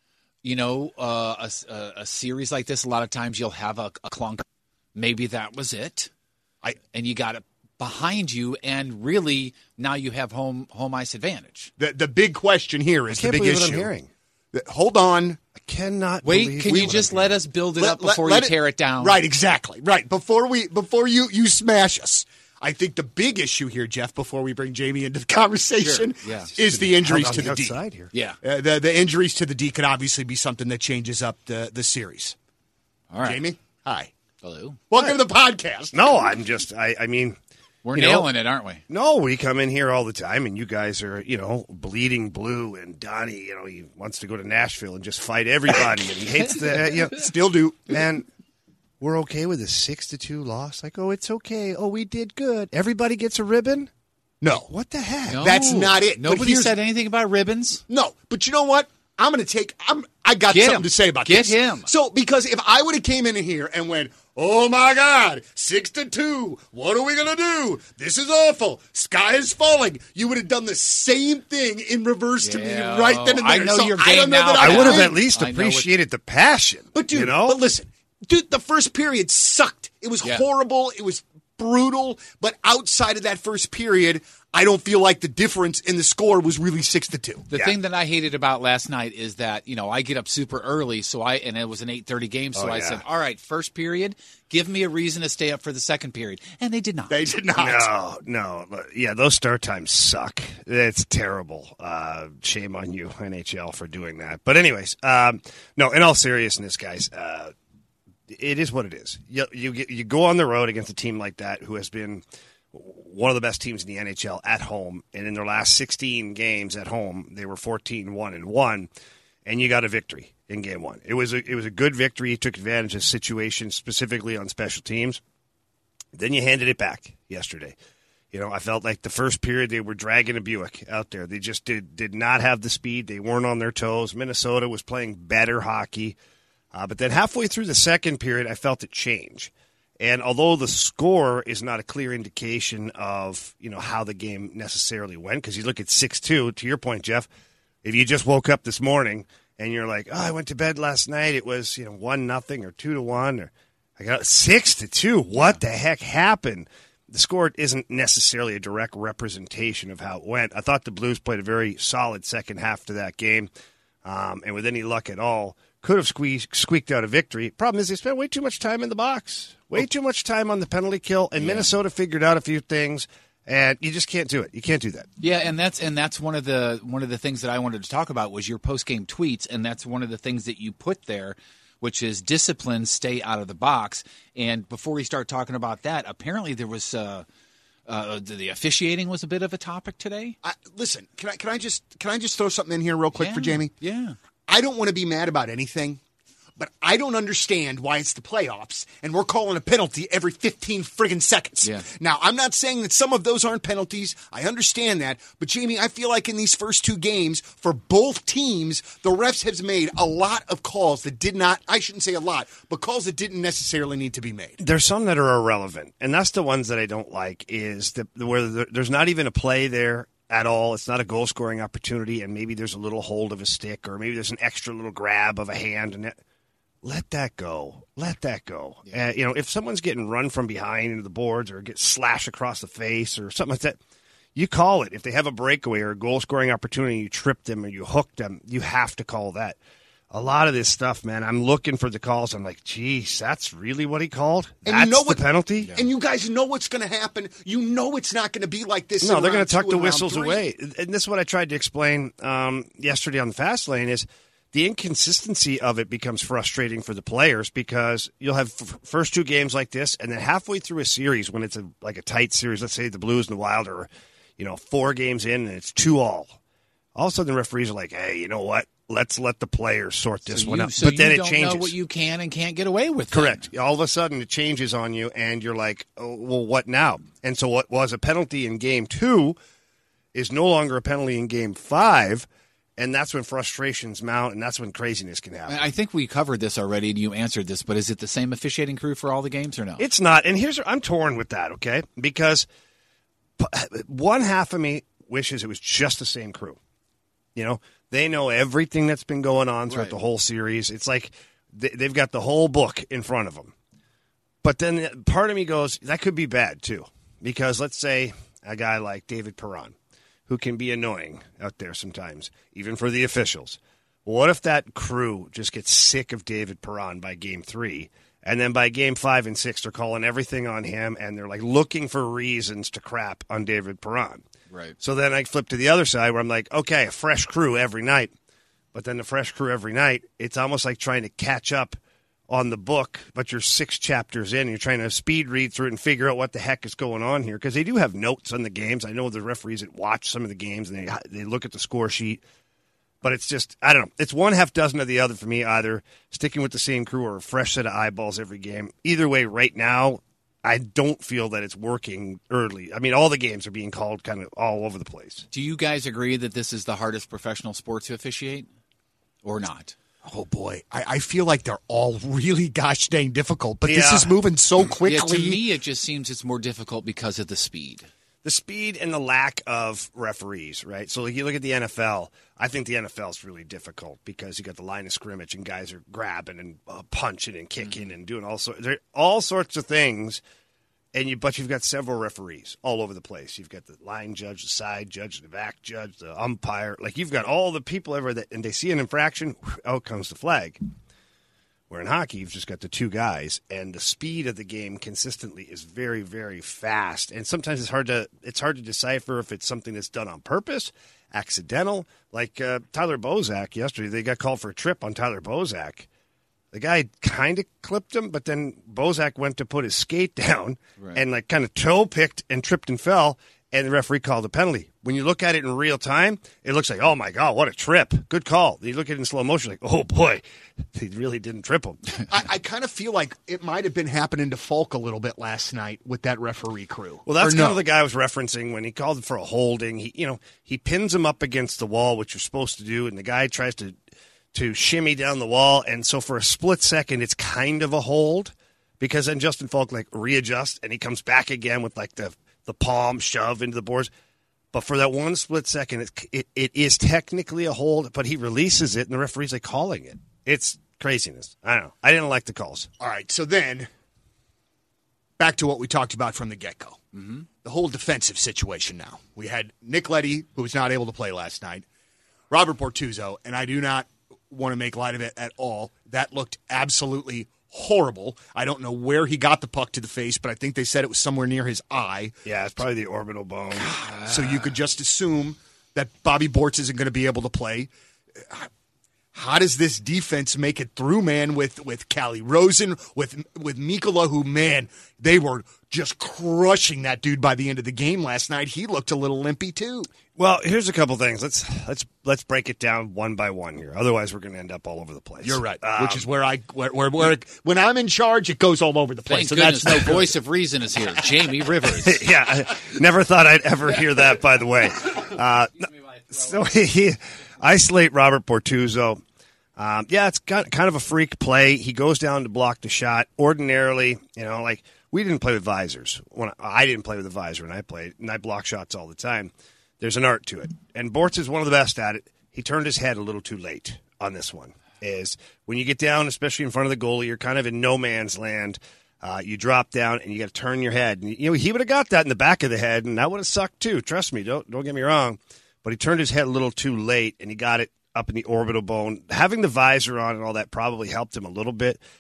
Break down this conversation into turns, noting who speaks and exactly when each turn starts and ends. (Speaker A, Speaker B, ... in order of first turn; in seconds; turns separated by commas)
Speaker A: 0.4-6.1, Speaker A: 6.9-11.7, Speaker B: 11.8-13.9, Speaker C: 13.1-14.1, Speaker B: 14.5-15.4, Speaker C: 15.6-17.4, Speaker A: 16.2-19.2, Speaker B: 17.8-27.8, Speaker A: 25.8-26.5, Speaker C: 26.6-28.1, Speaker A: 28.1-28.4, Speaker B: 28.4-32.4, Speaker A: 33.1-33.4, Speaker B: 33.2-34.1, Speaker A: 34.4-34.8, Speaker B: 34.9-36.0, Speaker C: 35.9-37.4, Speaker A: 37.8-38.8, Speaker C: 37.9-38.3, Speaker C: 38.9-47.3, Speaker B: 47.0-48.0, Speaker C: 47.9-48.3, Speaker C: 49.0-53.9, Speaker B: 54.4-54.7, Speaker C: 54.5-55.5, Speaker A: 55.3-57.8, Speaker B: 55.4-56.7, Speaker B: 57.9-75.1, Speaker A: 60.5-61.9, Speaker A: 72.4-75.9, Speaker C: 74.6-77.6, Speaker B: 77.0-87.5, Speaker A: 87.5-97.2, Speaker C: 92.5-93.0, Speaker B: 97.1-97.9, Speaker C: 97.6-107.5, Speaker C: 108.3-118.9, Speaker C: 119.5-125.2, Speaker C: 126.1-127.8, Speaker C: 128.3-136.2, Speaker C: 136.7-147.3, Speaker C: 147.8-163.5, Speaker C: 164.0-175.1, Speaker A: 171.4-171.7, Speaker A: 175.2-187.3, Speaker A: 187.9-190.4, Speaker B: 190.4-193.7, Speaker A: 193.2-194.2, Speaker B: 194.5-196.0, Speaker B: 196.6-214.6, Speaker A: 201.6-201.9, Speaker C: 214.6-226.2, Speaker C: 226.8-233.8, Speaker C: 234.3-239.6, Speaker C: 240.1-245.8, Speaker B: 244.7-250.4, Speaker C: 249.0-266.4, Speaker C: 266.9-271.8, Speaker A: 270.3-273.5, Speaker C: 273.1-279.4, Speaker C: 280.1-285.6, Speaker A: 285.5-289.9, Speaker C: 289.8-292.5, Speaker C: 293.4-296.6, Speaker C: 297.4-303.5, Speaker C: 304.4-309.8, Speaker C: 310.3-324.2, Speaker C: 324.8-328.1, Speaker C: 328.7-331.8, Speaker C: 332.3-342.2, Speaker C: 343.0-355.3, Speaker A: 355.3-358.5, Speaker A: 359.2-359.8, Speaker B: 360.0-365.4, Speaker C: 363.6-364.1, Speaker A: 364.9-367.9, Speaker C: 368.2-380.2, Speaker C: 380.9-390.6, Speaker C: 391.7-405.9, Speaker C: 406.5-420.2, Speaker C: 420.7-422.0, Speaker B: 422.1-427.6, Speaker C: 427.1-433.8, Speaker C: 434.3-443.9, Speaker C: 444.5-452.7, Speaker B: 452.8-453.7, Speaker B: 455.2-456.8, Speaker A: 456.9-457.2, Speaker B: 457.4-461.6, Speaker B: 462.3-472.2, Speaker C: 472.2-473.8, Speaker B: 473.6-478.5, Speaker B: 479.1-489.9, Speaker C: 490.2-496.1, Speaker B: 495.2-500.1, Speaker A: 499.1-502.0, Speaker C: 501.8-509.0, Speaker C: 509.6-541.8